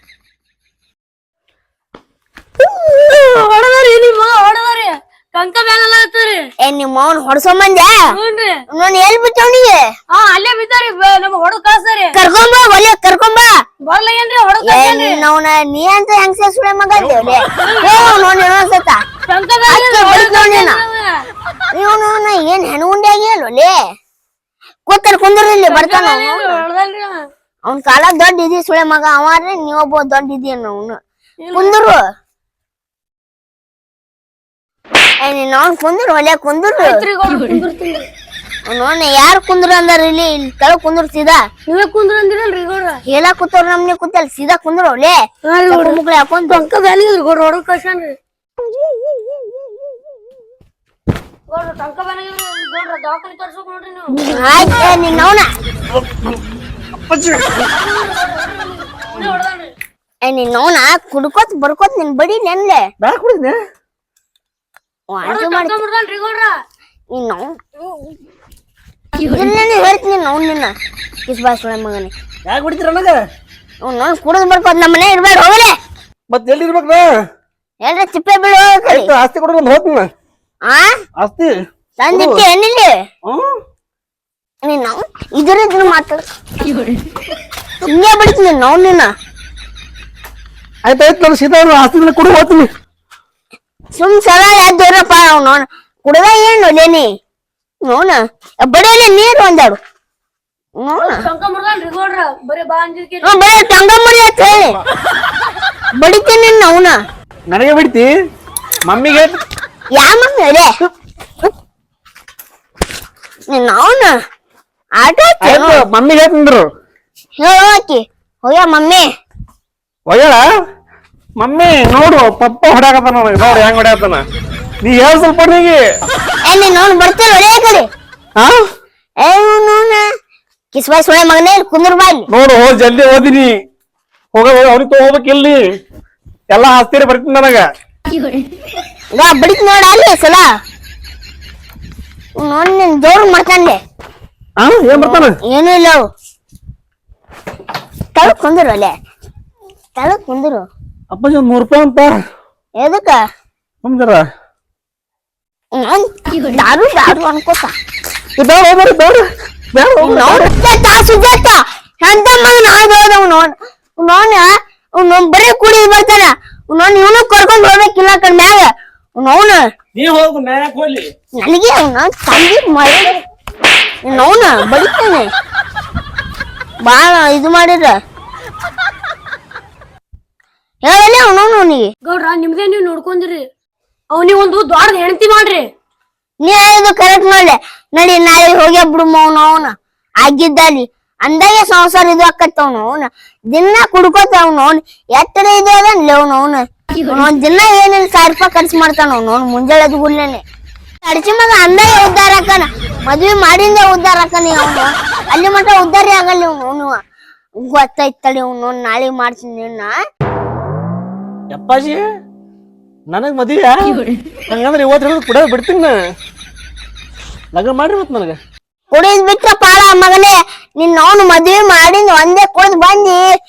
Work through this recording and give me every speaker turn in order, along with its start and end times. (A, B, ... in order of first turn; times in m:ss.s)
0:02.7-0:06.4 A
0:06.6-0:08.0 B
0:08.1-0:08.6 A
0:08.7-0:09.8 B
0:10.1-0:12.2 A
0:12.2-0:13.5 B
0:13.8-0:15.2 A
0:14.6-0:19.0 B
0:17.6-0:18.3 A
0:19.3-0:21.0 A
0:19.7-0:20.8 B
0:21.7-0:23.7 B
0:24.9-0:26.6 B
0:25.7-0:27.2 A
0:27.7-0:31.0 B
0:31.4-0:31.8 A
0:31.5-0:32.0 B
0:35.2-0:37.0 B
0:36.8-0:38.1 A
0:38.7-0:41.4 B
0:41.7-0:43.0 A
0:43.1-0:45.2 B
0:45.5-0:48.1 A
0:45.7-0:46.6 B
0:51.5-0:54.3 A
0:54.3-0:55.5 B
0:57.0-0:57.5 C
0:57.5-0:59.7 A
1:00.2-1:02.8 B
1:03.0-1:03.6 C
1:05.1-1:05.8 B
1:05.2-1:06.5 A
1:07.1-1:07.5 B
1:09.3-1:10.7 B
1:11.3-1:12.1 B
1:12.5-1:13.2 C
1:13.8-1:15.7 B
1:16.3-1:17.1 C
1:17.8-1:19.1 B
1:18.9-1:20.1 C
1:21.2-1:21.5 C
1:22.0-1:22.9 B
1:22.1-1:22.4 C
1:23.3-1:23.6 C
1:24.6-1:26.2 B
1:27.8-1:29.1 B
1:30.9-1:32.7 C
1:34.0-1:37.1 B
1:37.9-1:39.8 B
1:40.8-1:41.2 B
1:41.0-1:43.4 A
1:43.2-1:44.7 B
1:46.0-1:47.0 B
1:47.5-1:48.1 C
1:48.9-1:49.4 C
1:50.0-1:50.7 B
1:53.5-1:54.1 B
1:55.0-1:55.8 B
1:55.4-1:56.7 C
1:57.4-1:59.0 B
2:00.1-2:00.5 C
2:01.4-2:04.2 C
2:04.8-2:05.8 C
2:06.5-2:07.9 B
2:08.4-2:08.6 C
2:09.2-2:10.0 B
2:10.7-2:12.3 B
2:12.3-2:13.6 C
2:14.3-2:15.6 C
2:16.5-2:17.7 C
2:19.2-2:20.5 B
2:22.4-2:23.8 B
2:24.6-2:25.4 C
2:24.9-2:26.0 B
2:28.2-2:28.9 B
2:30.0-2:30.7 B
2:31.1-2:32.2 C
2:32.8-2:33.2 B
2:33.8-2:34.3 C
2:35.8-2:37.7 B
2:38.4-2:40.5 C
2:40.0-2:49.6 B
2:50.0-2:51.0 C
2:51.4-2:53.2 B
2:54.0-2:55.3 B
2:56.9-2:58.0 B
3:00.9-3:01.9 B
3:02.0-3:03.4 A
3:04.1-3:05.6 A
3:06.4-3:20.4 B
3:21.0-3:26.9 B
3:27.6-3:29.9 B
3:31.5-3:32.0 C
3:33.1-3:36.0 C
3:37.5-3:38.4 C
3:38.9-3:43.2 B